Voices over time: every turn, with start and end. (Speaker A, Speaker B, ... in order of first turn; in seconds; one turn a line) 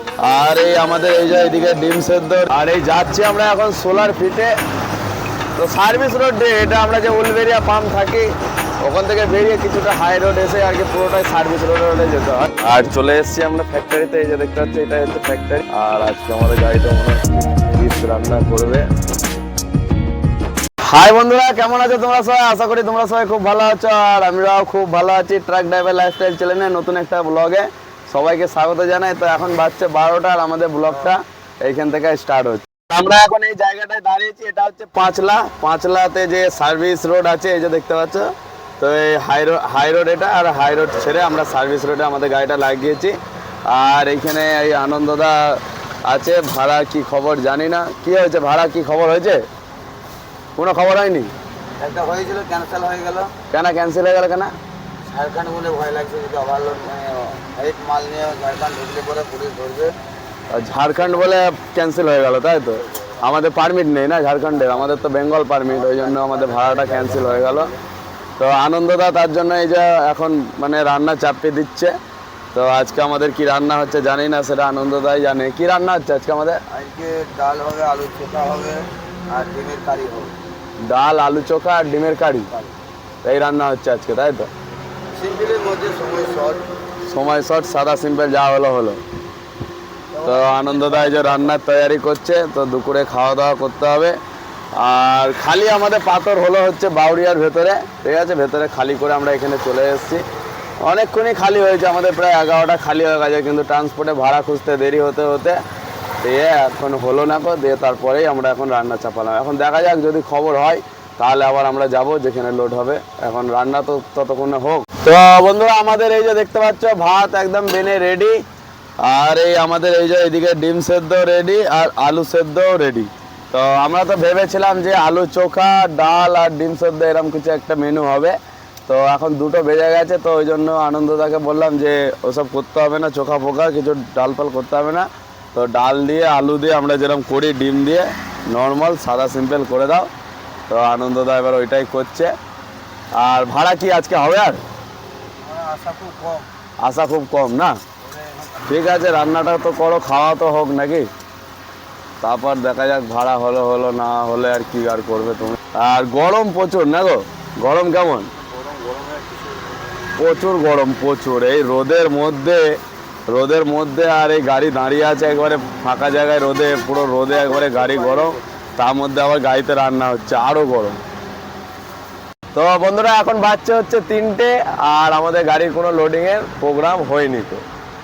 Speaker A: 0.2-4.5
Speaker A: 5.5-8.3
Speaker A: 8.8-18.9
Speaker A: 20.8-49.4
Speaker A: 50.5-51.3
Speaker B: 51.8-53.3
Speaker A: 53.5-54.5
Speaker B: 55.1-59.9
Speaker A: 60.5-67.7
Speaker B: 65.7-67.8
Speaker A: 68.4-72.0
Speaker A: 72.5-76.6
Speaker B: 76.7-80.3
Speaker A: 80.8-82.5
Speaker A: 83.2-84.5
Speaker B: 85.1-86.7
Speaker A: 87.1-89.0
Speaker B: 90.1-91.5
Speaker A: 90.2-94.2
Speaker A: 94.7-100.2
Speaker A: 100.8-105.6
Speaker A: 106.2-118.4
Speaker A: 119.0-140.1
Speaker A: 140.7-142.3
Speaker A: 143.1-144.6
Speaker B: 145.4-146.5
Speaker A: 146.8-147.8
Speaker B: 148.1-148.6
Speaker A: 148.6-151.1
Speaker A: 152.2-158.3
Speaker B: 158.4-159.8
Speaker A: 160.2-171.0
Speaker B: 167.3-168.4
Speaker A: 172.5-177.7